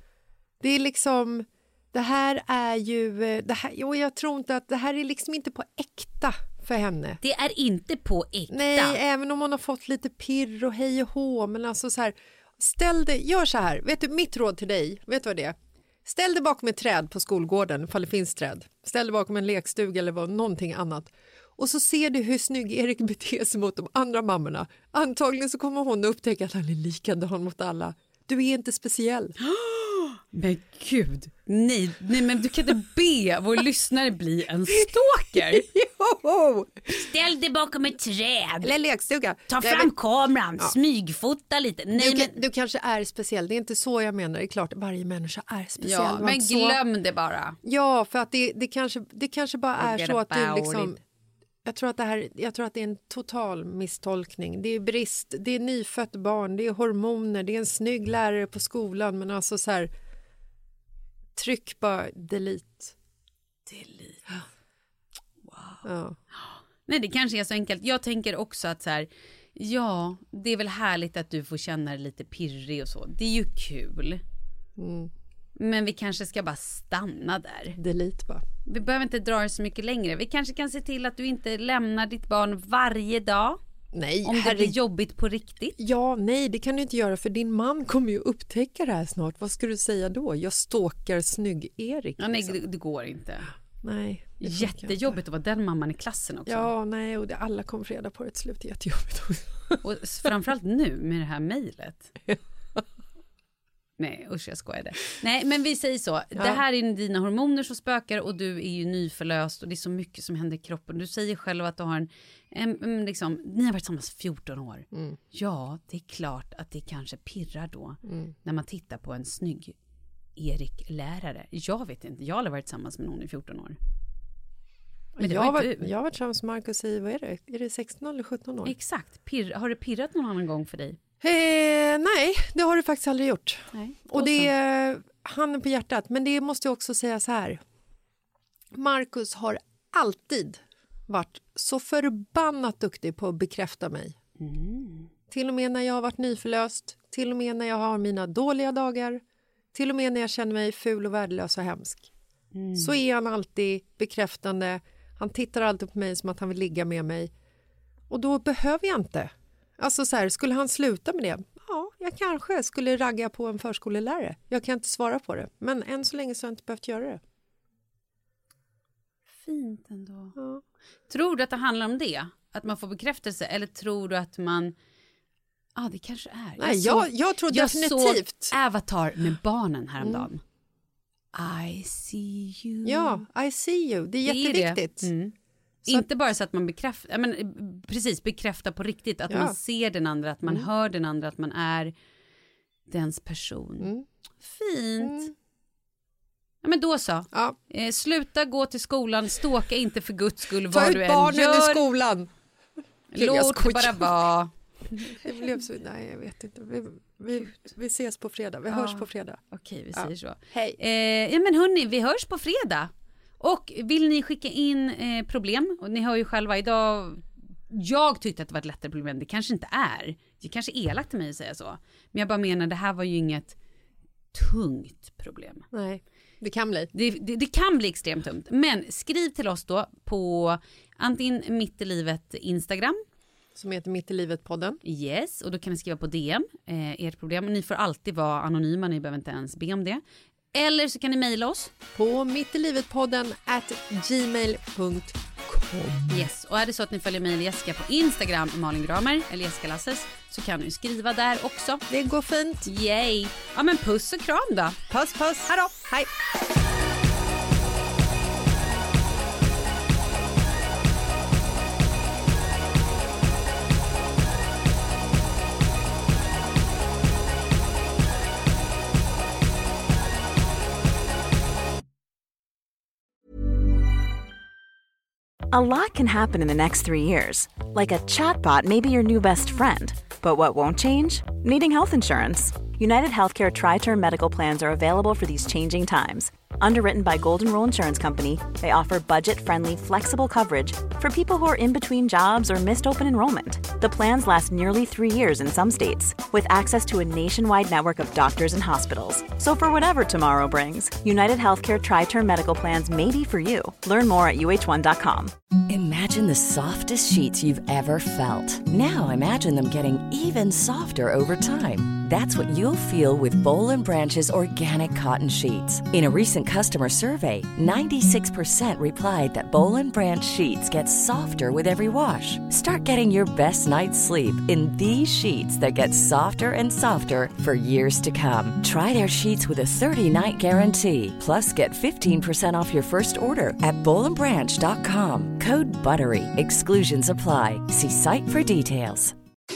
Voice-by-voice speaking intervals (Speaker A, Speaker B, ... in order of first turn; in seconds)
Speaker A: 0.6-7.2, 8.5-29.3, 35.5-36.9, 38.6-39.9, 41.9-46.8, 47.6-51.0, 51.6-59.9, 61.4-62.9, 65.8-66.2, 74.8-75.1, 77.8-78.4, 83.9-84.8, 85.8-92.6, 93.8-95.2, 96.5-99.8, 114.9-115.2, 118.0-118.3, 125.2-128.7, 131.2-137.6, 138.7-144.1, 145.3-149.2, 149.7-152.1, 152.8-157.3, 158.1-167.2, 176.6-178.5, 180.0-180.3, 182.8-185.1, 189.3-189.5, 193.8-194.1, 195.0-195.3, 200.7-202.3, 203.1-204.1, 205.0-209.4, 209.9-210.8, 225.7-226.9, 233.6-234.8, 241.9-246.3, 251.9-252.7, 254.9-256.1
Speaker B: 7.2-9.0, 29.6-35.7, 36.9-38.7, 39.5-42.4, 45.8-47.5, 49.8-51.0, 63.7-64.4, 65.4-65.8, 66.3-74.2, 75.6-77.8, 78.7-83.6, 84.2-85.8, 92.2-93.5, 94.4-96.7, 99.8-102.1, 104.0-119.7, 120.3-123.8, 125.2-125.9, 128.6-131.0, 133.7-134.5, 144.4-145.1, 152.5-152.9, 169.4-170.4, 171.1-174.7, 175.8-180.4, 181.3-183.2, 184.2-185.3, 185.9-191.9, 192.9-193.9, 194.4-195.3, 196.6-201.8, 203.1-205.1, 208.7-223.6, 224.3-225.7, 226.9-233.0, 234.8-240.0, 240.5-241.7, 246.1-251.8, 252.6-254.8
Speaker C: 275.5-305.3
Speaker D: 305.7-339.1